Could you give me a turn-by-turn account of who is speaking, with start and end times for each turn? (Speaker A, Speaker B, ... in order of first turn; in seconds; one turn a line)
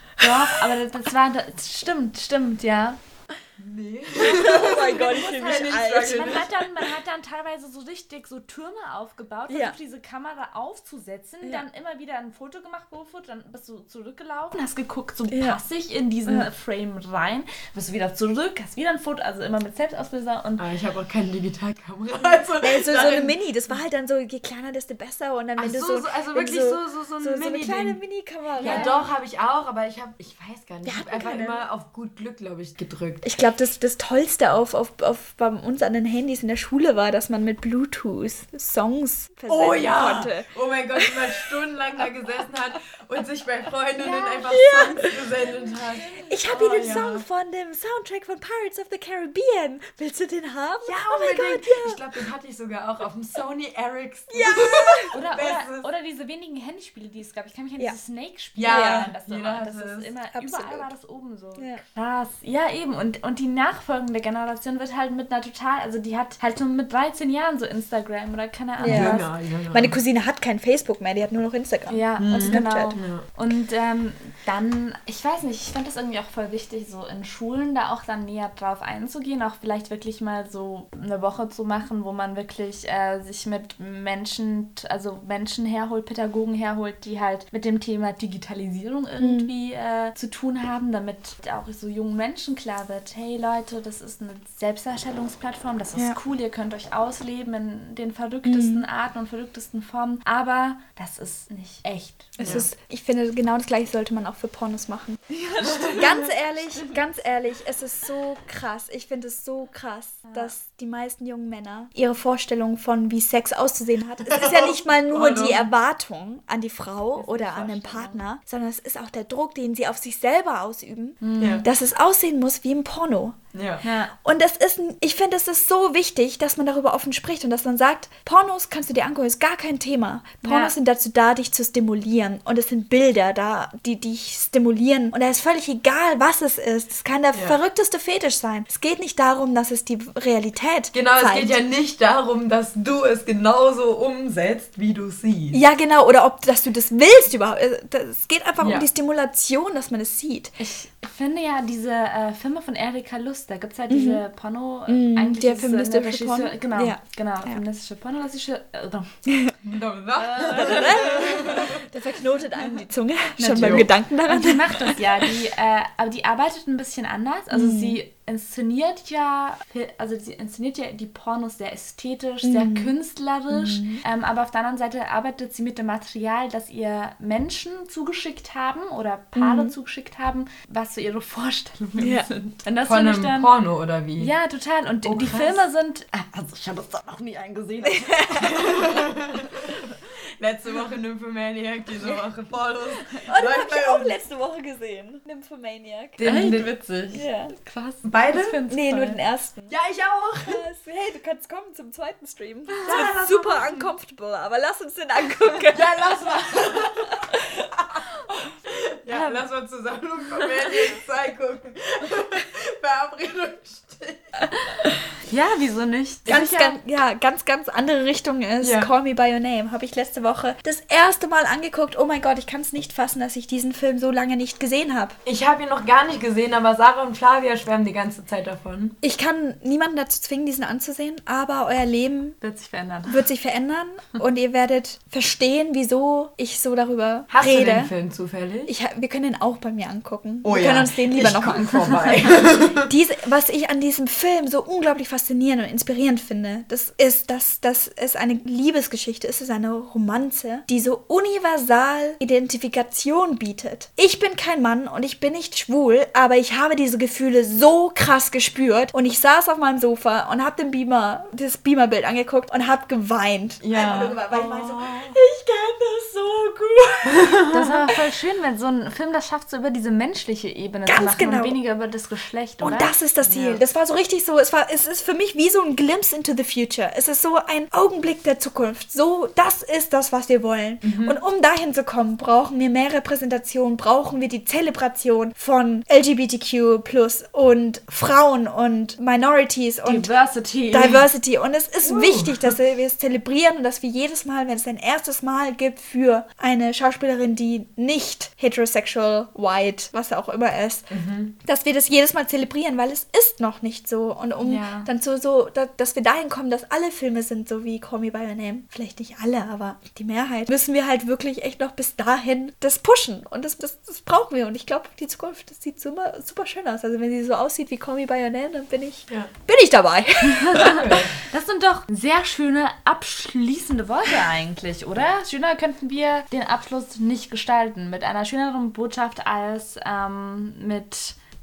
Speaker A: 0.2-3.0
Speaker B: 0.2-0.5
Speaker C: 3.6-6.6
Speaker B: 4.2-6.5
Speaker A: 6.0-20.7
Speaker B: 9.5-9.8
Speaker B: 15.3-15.6
Speaker C: 20.6-23.7
Speaker B: 22.6-29.0
Speaker C: 25.6-28.0
Speaker A: 28.6-29.0
Speaker C: 28.6-33.2
Speaker B: 30.8-31.6
Speaker B: 33.2-41.5
Speaker C: 39.5-47.2
Speaker B: 44.0-45.4
Speaker A: 44.1-44.4
Speaker A: 45.5-46.4
Speaker B: 46.3-52.3
Speaker C: 50.9-55.9
Speaker B: 54.3-55.1
Speaker A: 55.1-69.3
Speaker C: 58.6-60.1
Speaker B: 58.7-59.1
Speaker B: 60.3-60.9
Speaker B: 61.6-61.8
Speaker B: 68.8-73.0
Speaker C: 68.9-70.0
Speaker A: 71.9-102.6
Speaker C: 72.2-73.2
Speaker B: 89.2-89.5
Speaker B: 98.5-98.8
Speaker B: 102.4-123.4
Speaker A: 105.3-106.3
Speaker A: 110.3-110.5
Speaker C: 114.3-115.7
Speaker A: 117.2-118.2
Speaker A: 121.2-121.7
Speaker C: 123.5-123.8
Speaker A: 123.8-124.1
Speaker B: 124.2-141.6
Speaker A: 130.4-130.7
Speaker C: 140.9-145.6
Speaker B: 145.5-150.6
Speaker C: 148.6-148.9
Speaker A: 150.6-159.2
Speaker B: 153.9-154.2
Speaker B: 154.9-157.6
Speaker B: 159.3-159.6
Speaker C: 159.7-161.8
Speaker A: 160.2-161.5
Speaker B: 160.5-165.2
Speaker A: 163.4-183.5
Speaker C: 163.5-163.9
Speaker B: 167.5-168.0
Speaker B: 172.4-172.9
Speaker B: 173.5-174.0
Speaker B: 179.4-179.7
Speaker B: 182.0-182.3
Speaker C: 182.8-184.3
Speaker A: 184.2-189.1
Speaker C: 185.1-185.6
Speaker B: 188.1-188.5
Speaker C: 188.4-194.2
Speaker B: 193.2-196.2
Speaker C: 196.2-196.7
Speaker A: 196.2-199.2
Speaker B: 197.1-197.5
Speaker C: 198.0-198.6
Speaker B: 198.7-199.8
Speaker C: 199.7-200.6
Speaker B: 200.4-207.7
Speaker A: 202.7-203.0
Speaker C: 202.8-203.8
Speaker C: 205.6-208.0
Speaker C: 208.7-214.4
Speaker A: 209.1-209.4
Speaker A: 215.3-216.8
Speaker B: 216.3-225.2
Speaker C: 218.6-218.9
Speaker C: 225.2-229.0
Speaker B: 229.0-232.4
Speaker A: 232.4-233.2
Speaker B: 233.1-237.9
Speaker C: 237.3-238.7
Speaker B: 238.7-267.4
Speaker C: 240.4-242.9
Speaker C: 263.6-265.2
Speaker C: 267.2-267.6
Speaker A: 267.5-272.9
Speaker B: 270.9-271.6
Speaker B: 272.6-290.1
Speaker C: 273.2-273.6
Speaker C: 280.8-281.2
Speaker A: 289.9-291.0
Speaker B: 290.7-300.9
Speaker C: 291.8-292.5
Speaker C: 300.9-301.4
Speaker B: 301.4-320.9
Speaker A: 304.4-304.9
Speaker A: 320.5-331.2
Speaker C: 320.6-321.2